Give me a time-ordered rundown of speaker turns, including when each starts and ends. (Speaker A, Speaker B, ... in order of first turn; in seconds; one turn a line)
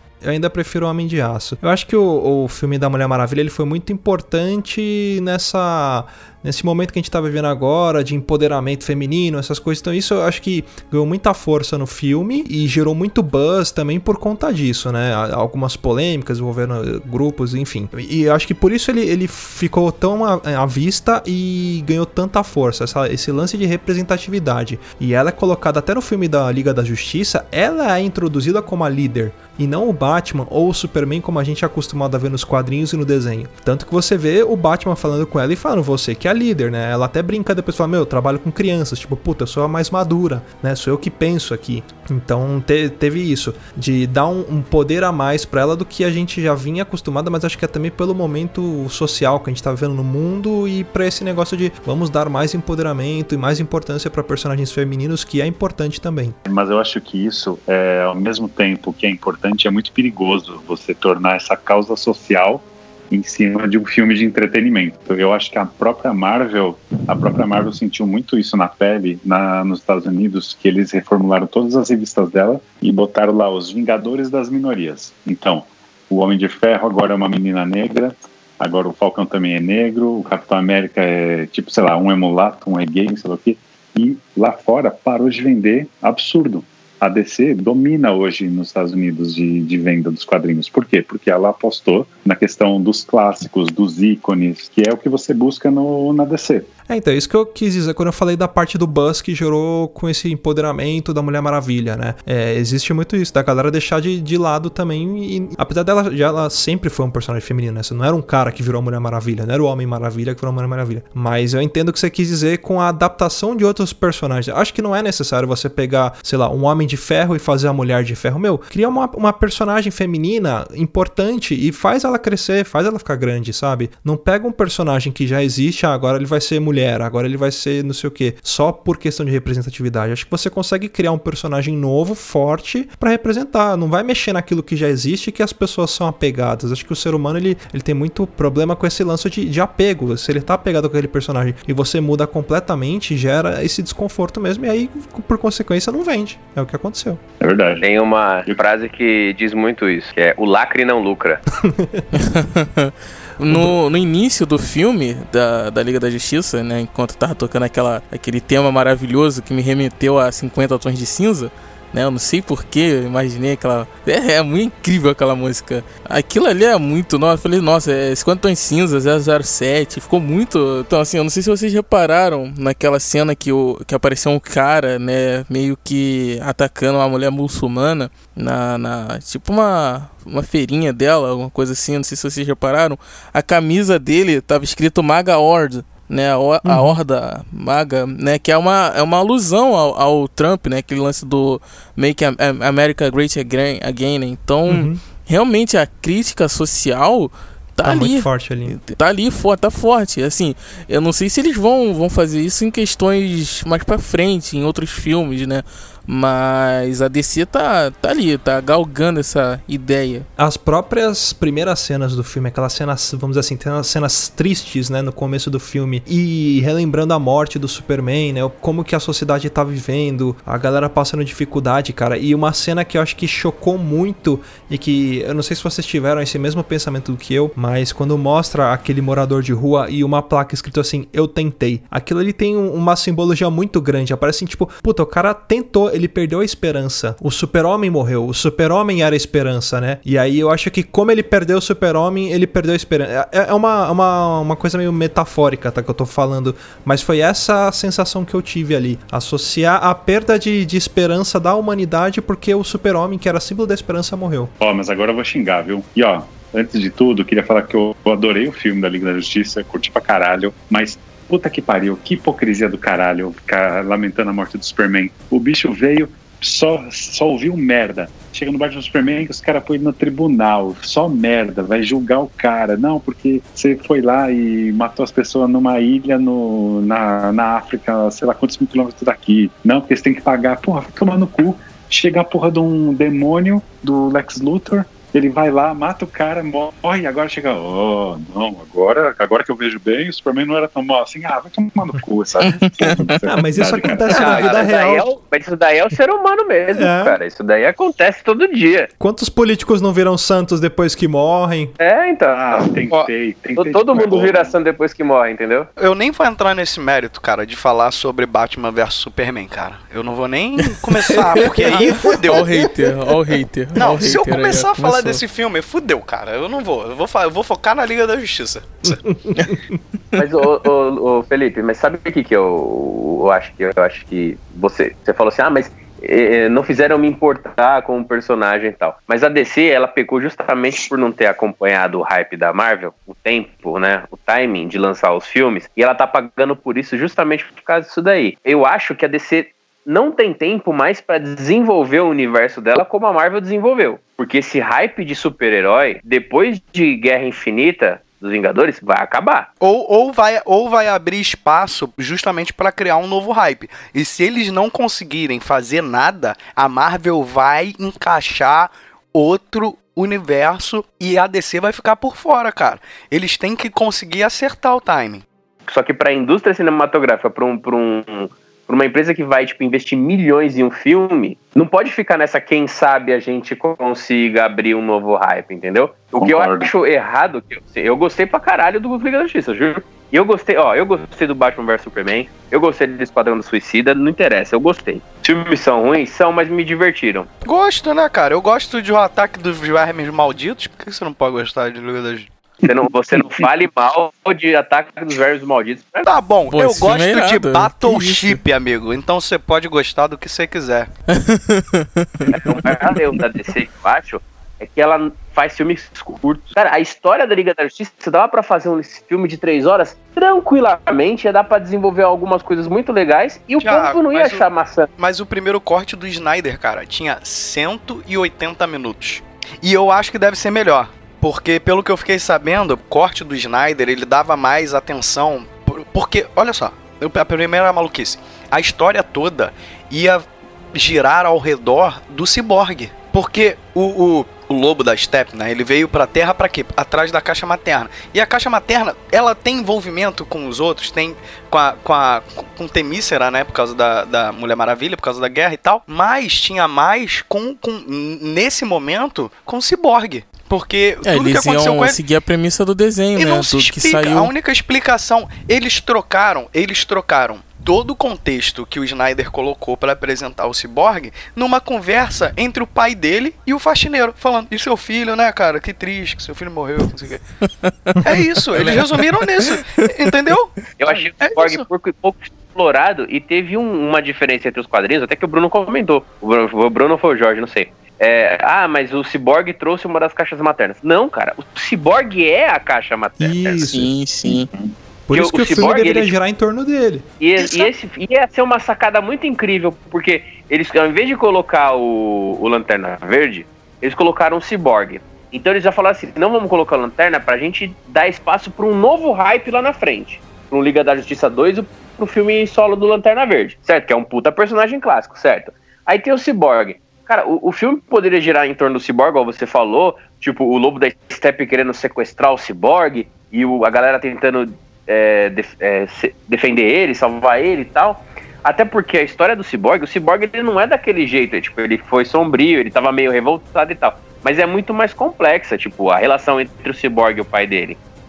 Speaker A: 0.2-56.4
Speaker B: 56.5-96.7
Speaker A: 96.9-147.2
Speaker B: 147.4-147.8
Speaker C: 147.8-151.4
Speaker A: 151.5-152.1
Speaker D: 152.1-210.2
Speaker A: 153.4-153.7
Speaker A: 186.6-187.0
Speaker A: 194.7-195.0
Speaker A: 197.8-198.8
Speaker A: 210.4-254.5
Speaker B: 254.6-294.3
Speaker D: 292.4-293.1
Speaker A: 293.3-295.1
Speaker C: 294.1-298.9
Speaker E: 294.1-294.7
Speaker A: 296.7-297.2
Speaker A: 299.0-301.7
Speaker C: 301.8-305.7
Speaker B: 302.3-304.5
Speaker E: 305.8-312.5
Speaker D: 310.7-315.2
Speaker A: 312.0-312.4
Speaker E: 313.7-319.0
Speaker A: 318.9-319.8
Speaker C: 320.1-349.5
Speaker E: 349.6-365.2
Speaker C: 365.7-387.3
Speaker B: 376.1-376.7
Speaker E: 387.4-392.3
Speaker C: 392.6-396.1
Speaker E: 396.0-400.9
Speaker D: 396.5-398.4
Speaker D: 401.1-403.2
Speaker C: 402.3-414.9
Speaker E: 413.6-414.4
Speaker E: 415.0-452.0
Speaker D: 451.0-454.3
Speaker E: 453.2-467.2
Speaker D: 467.4-469.7
Speaker E: 468.0-470.7
Speaker C: 470.8-483.7
Speaker E: 471.2-471.6
Speaker A: 483.2-483.9
Speaker D: 483.6-484.5
Speaker A: 485.1-487.1
Speaker C: 485.1-486.1
Speaker C: 487.2-527.8